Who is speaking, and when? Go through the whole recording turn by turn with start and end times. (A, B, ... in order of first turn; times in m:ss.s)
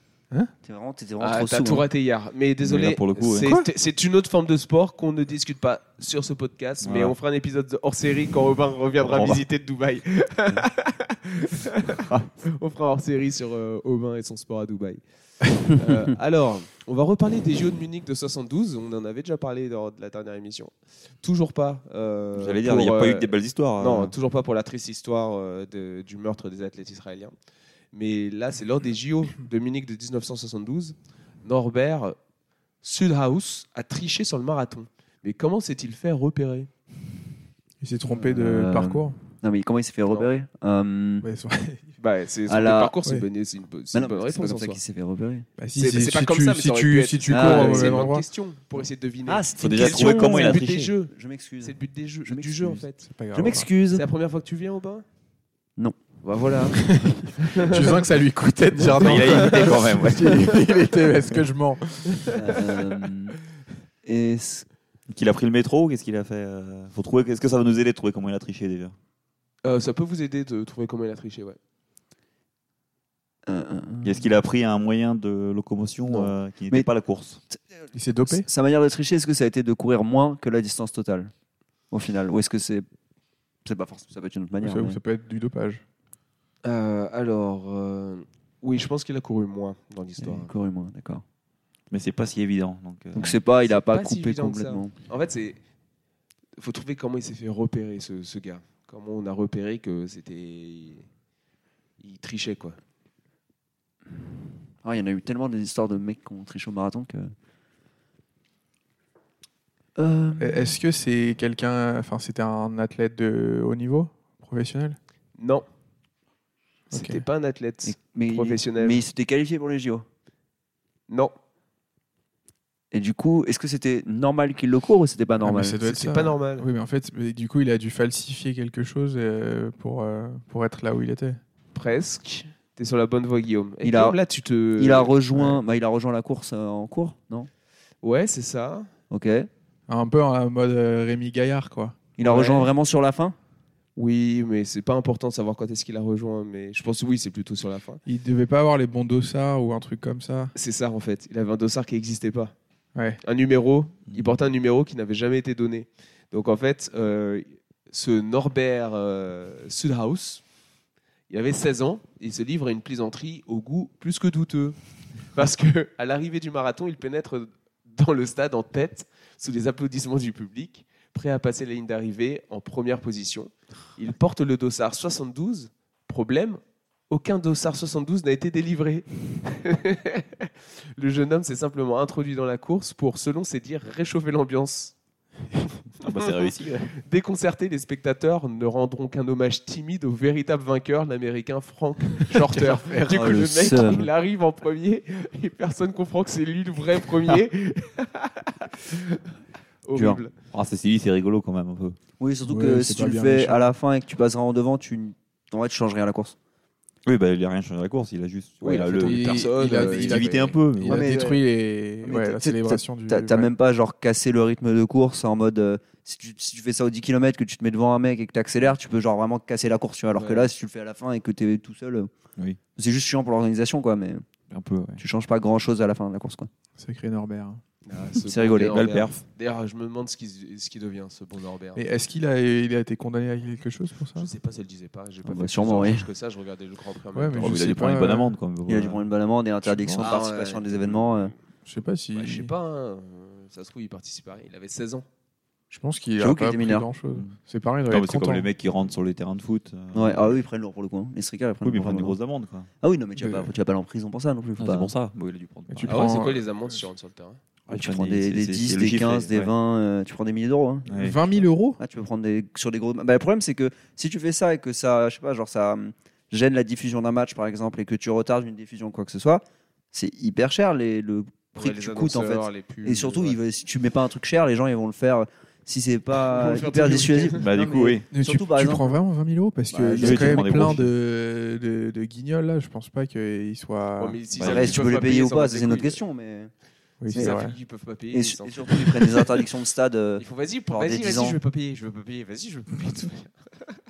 0:00.6-0:01.8 A
0:01.2-0:15.0 B
0:02.6-0:03.6 C
0:03.4-0:03.7 D
0:06.8-0:07.2 C
0:09.0-0:09.4 C
0:11.9-0:12.3 C
0:15.6-0:27.3 B
0:22.4-0:24.1 C
0:27.9-0:32.2 B
0:32.8-0:36.7 B
0:37.8-0:39.2 D
0:38.1-0:41.3 A
0:41.2-0:41.9 D
0:42.0-0:44.8 B
0:42.5-0:43.0 A
0:43.9-0:45.5 A
0:45.6-0:48.3 D
0:45.8-0:53.0 B
0:47.3-0:48.1 A
0:49.3-0:52.8 A
0:49.6-0:50.9 C
0:53.0-0:53.7 D
0:53.3-0:54.0 A
0:53.9-0:55.0 B
0:56.2-0:56.9 B
0:56.7-1:02.9 D
0:57.4-0:58.0 B
0:58.8-0:59.8 B
0:58.9-1:00.7 C
1:02.3-1:03.4 A
1:04.0-1:04.6 A
1:05.1-1:08.9 C
1:09.6-1:11.6 B
1:13.4-1:14.2 A
1:14.0-1:17.4 C
1:17.9-1:18.5 D
1:18.3-1:21.3 A
1:21.9-1:22.8 A
1:23.6-1:25.0 A
1:24.6-1:25.8 D
1:26.6-1:30.5 B
1:30.2-1:31.2 A
1:31.9-1:33.4 C
1:33.1-1:34.9 A
1:33.7-1:35.6 B
1:36.6-1:41.1 B
1:42.0-1:42.8 B
1:44.8-1:47.3 A
1:50.0-1:50.8 A
1:50.4-1:55.0 D
1:55.4-1:55.6 B
1:56.9-1:59.0 B
1:56.9-1:57.2 D
1:57.8-2:00.0 A
2:02.9-2:05.8 A
2:05.4-2:11.4 D
2:05.8-2:06.6 B
2:11.7-2:15.2 B
2:13.8-2:14.2 A
2:14.8-2:17.5 A
2:15.3-2:15.6 D
2:18.0-2:18.9 B
2:19.1-2:19.5 A
2:19.9-2:22.0 D
2:22.2-2:23.4 A
2:22.2-2:22.7 B
2:24.0-2:28.0 B
2:28.0-2:30.5 D
2:30.5-2:32.5 B
2:32.9-2:33.2 D
2:33.2-2:40.4 B
2:41.3-2:44.8 B
2:45.3-3:04.9 B
3:05.6-3:06.3 B
3:06.0-3:06.9 C
3:06.9-3:19.2 B
3:12.3-3:13.3 D
3:13.1-3:14.1 A
3:19.8-3:20.3 B
3:19.9-3:20.2 A
3:20.5-3:22.0 C
3:22.2-3:26.4 A
3:22.4-3:23.7 D
3:27.0-3:31.2 C
3:28.6-3:30.6 B
3:29.0-3:33.5 D
3:30.8-3:31.4 A
3:32.0-3:42.1 A
3:40.1-3:40.5 B
3:42.8-3:44.2 A
3:44.5-3:45.0 C
3:45.0-3:46.5 A
3:46.8-3:47.6 D
3:47.8-3:51.8 B
3:48.2-3:48.9 A
3:48.6-3:49.2 C
3:51.8-3:54.3 D
3:54.2-3:57.7 B
3:55.2-3:56.0 A
3:57.1-3:58.4 D
3:57.4-3:59.0 C
3:58.6-4:01.3 A
3:59.6-4:00.1 D
4:00.0-4:01.3 B
4:01.6-4:02.5 D
4:02.1-4:05.0 B
4:05.7-4:08.5 D
4:06.2-4:06.9 A
4:07.9-4:10.3 C
4:09.9-4:12.2 A
4:11.6-4:12.7 C
4:12.8-4:14.9 A
4:13.2-4:13.5 D
4:14.6-4:16.2 C
4:15.7-4:16.4 D
4:15.9-4:17.4 B
4:17.7-4:20.9 A
4:17.7-4:19.5 C
4:20.9-4:21.2 C
4:20.9-4:21.8 D
4:21.8-4:39.0 A
4:31.5-4:33.4 B
4:36.2-4:37.4 B
4:37.4-4:38.1 C
4:38.1-4:44.2 D
4:39.7-4:40.4 A
4:39.9-4:40.9 C
4:44.0-4:46.0 B
4:44.4-4:44.8 C
4:44.4-4:46.5 A
4:47.0-4:47.5 D
4:47.1-4:47.4 A
4:47.1-4:49.3 B
4:48.1-4:51.4 A
4:50.2-4:53.3 B